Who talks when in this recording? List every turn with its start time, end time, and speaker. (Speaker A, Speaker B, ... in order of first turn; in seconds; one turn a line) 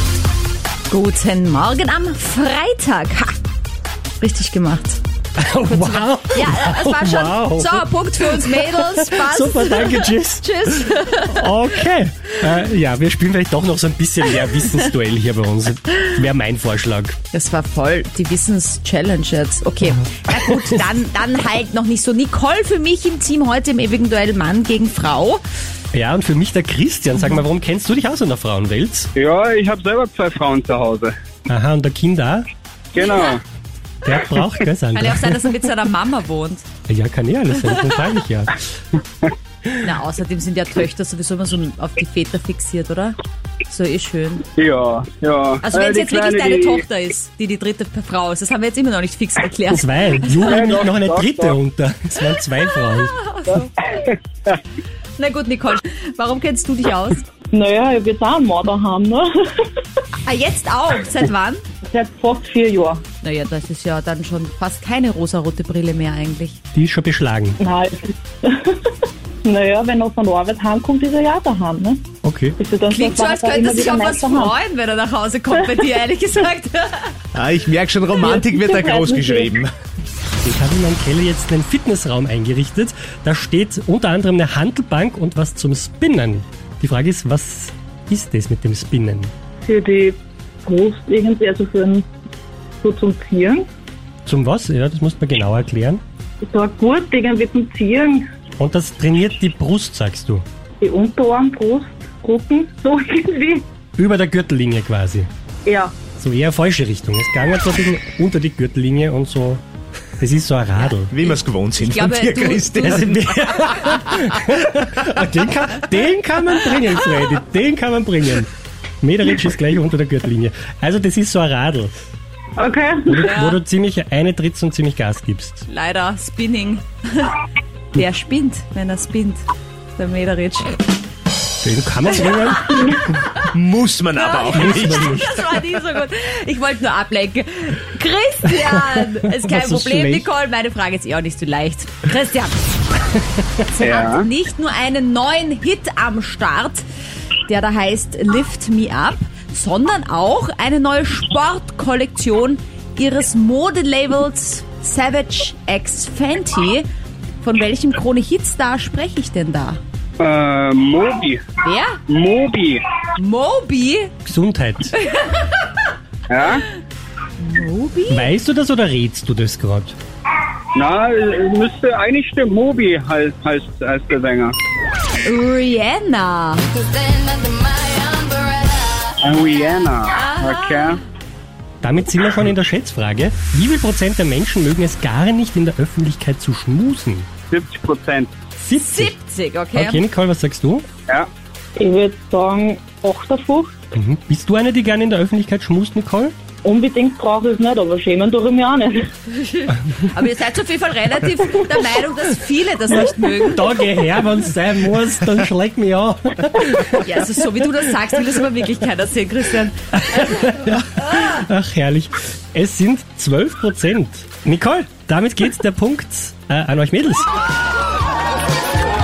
Speaker A: 0.9-3.4
Speaker A: 4.2-5.0
Speaker B: 5.4-17.2
Speaker A: 5.7-11.5
Speaker A: 17.3-25.4
Speaker B: 25.9-29.1
Speaker C: 29.1-31.1
Speaker B: 31.5-32.5
Speaker C: 32.9-33.4
Speaker A: 33.0-33.3
Speaker B: 34.0-35.5
Speaker A: 34.9-36.7
Speaker B: 36.9-38.6
Speaker A: 37.6-37.9
Speaker A: 39.8-44.5
Speaker C: 44.6-46.8
Speaker A: 45.6-50.5
Speaker B: 49.7-53.2
Speaker C: 50.3-51.6
Speaker A: 52.8-53.9
Speaker A: 55.2-57.3
Speaker D: 57.5-59.3
Speaker A: 60.2-61.6
Speaker D: 61.9-63.0
Speaker A: 63.2-66.6
Speaker B: 66.7-67.6
Speaker D: 67.6-68.8
Speaker D: 69.4-72.0
Speaker B: 72.2-72.6
Speaker D: 72.6-74.5
Speaker A: 72.9-77.2
Speaker E: 77.3-79.7
Speaker D: 78.1-79.6
Speaker B: 80.4-89.3
Speaker D: 89.6-92.1
Speaker D: 92.8-93.7
Speaker B: 94.3-96.0
Speaker D: 96.4-98.2
Speaker B: 98.6-100.5
Speaker D: 100.8-103.7
Speaker B: 104.0-105.3
Speaker D: 105.7-105.9
Speaker B: 106.2-109.6
Speaker B: 110.2-111.1
Speaker A: 110.8-114.3
Speaker E: 111.1-113.4
Speaker B: 112.8-121.9
Speaker D: 122.6-123.3
Speaker B: 123.1-125.7
Speaker A: 123.2-123.6
Speaker A: 125.7-127.4
Speaker A: 127.9-129.4
Speaker A: 130.0-130.7
Speaker B: 131.6-133.2
Speaker E: 133.5-135.1
Speaker A: 134.1-142.9
Speaker B: 134.5-135.3
Speaker B: 138.6-140.3
Speaker A: 143.6-146.8
Speaker C: 143.8-144.3
Speaker A: 147.5-156.9
Speaker A: 157.4-159.8
Speaker C: 160.2-161.4
Speaker A: 161.6-162.0
Speaker C: 162.1-162.8
Speaker A: 163.2-164.1
Speaker B: 164.2-164.9
Speaker A: 165.0-165.5
Speaker C: 166.3-166.7
Speaker A: 167.4-168.3
Speaker B: 168.1-170.0
Speaker C: 170.8-174.6
Speaker A: 175.2-176.8
Speaker C: 179.2-181.0
Speaker A: 180.1-181.0
Speaker B: 181.8-187.3
Speaker C: 187.5-188.3
Speaker B: 188.6-189.1
Speaker A: 188.8-190.0
Speaker B: 189.7-190.9
Speaker D: 191.8-193.8
Speaker B: 193.9-196.3
Speaker D: 196.6-199.1
Speaker A: 199.3-203.7
Speaker B: 203.0-207.4
Speaker A: 207.0-210.2
Speaker B: 210.0-217.3